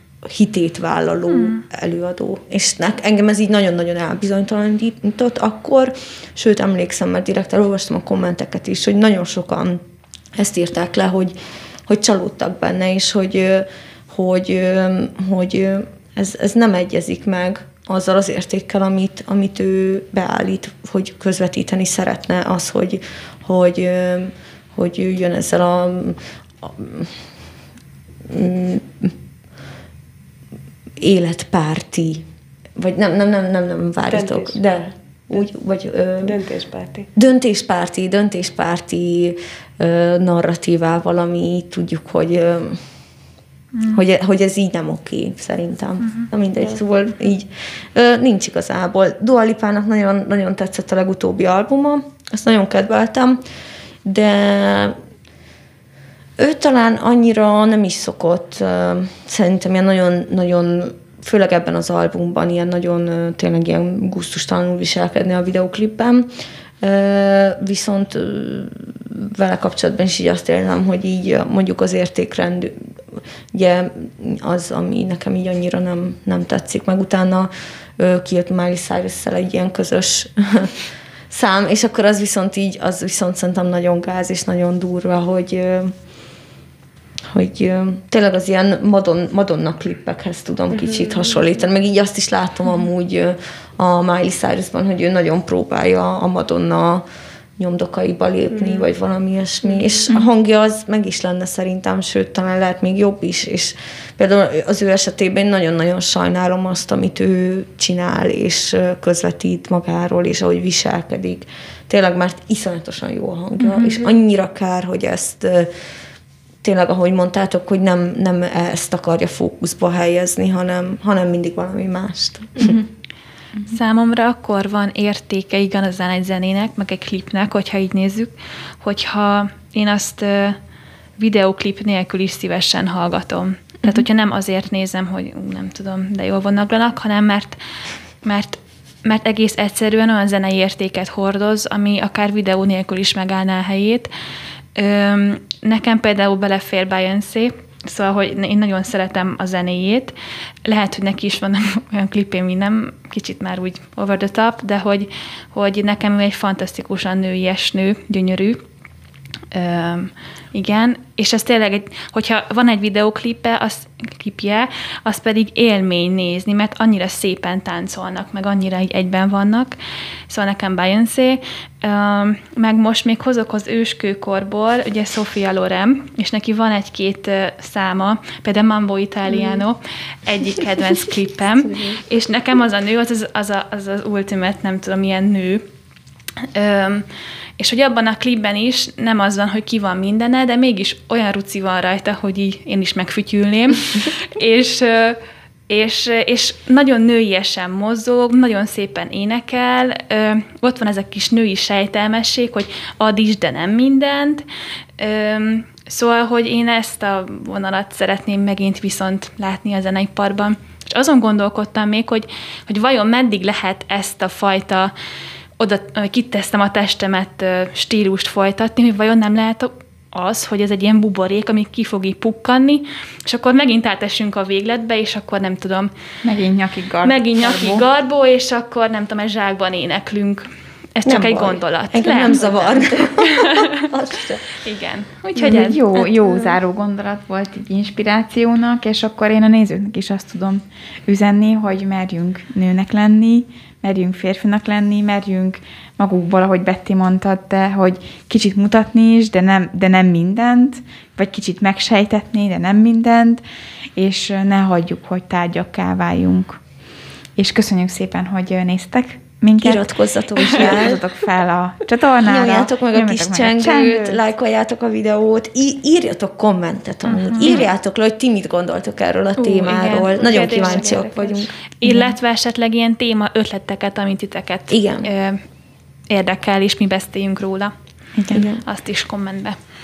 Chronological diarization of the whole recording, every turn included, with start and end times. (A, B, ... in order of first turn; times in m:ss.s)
0:00.2-0:09.8 A
0:10.3-0:11.3 A
0:11.9-0:27.1 A
0:28.3-0:29.1 A
0:31.0-0:36.4 A
0:34.1-0:34.7 B
0:36.2-0:37.1 B
0:37.2-0:42.8 A
0:43.9-0:53.4 A
0:54.0-0:55.0 A
0:56.4-1:06.3 A
1:06.8-1:12.7 A
1:13.5-1:20.8 A
1:21.3-1:25.9 A
1:27.3-1:37.0 A
1:30.7-1:31.6 B
1:37.6-1:55.7 A
1:38.5-1:38.9 B
1:39.6-1:40.0 B
1:53.7-1:54.1 B
1:56.6-2:02.8 A
2:03.7-2:10.6 C
2:11.2-2:17.6 C
2:18.2-2:24.1 C
2:24.7-2:30.1 C
2:30.6-2:38.6 C
2:39.5-2:49.8 C
2:50.3-3:05.6 C
3:01.7-3:02.0 A
3:06.4-3:07.0 C
3:07.6-3:24.4 C
3:25.0-3:34.9 C
3:35.6-3:45.9 C
3:46.2-3:47.8 D
3:47.0-3:53.8 C
3:51.0-3:54.4 A
3:54.6-3:55.8 C
3:55.4-3:56.6 A
3:55.4-4:13.4 D
4:14.0-4:16.6 D
4:17.4-4:24.2 D
4:19.6-4:21.0 A
4:22.2-4:31.5 A
4:27.2-4:27.6 C
4:29.4-4:31.2 C
4:30.2-4:31.1 B
4:31.8-4:35.4 C
4:34.7-4:35.1 A
4:36.1-4:37.7 C
4:38.3-4:38.6 A
4:38.3-4:39.6 C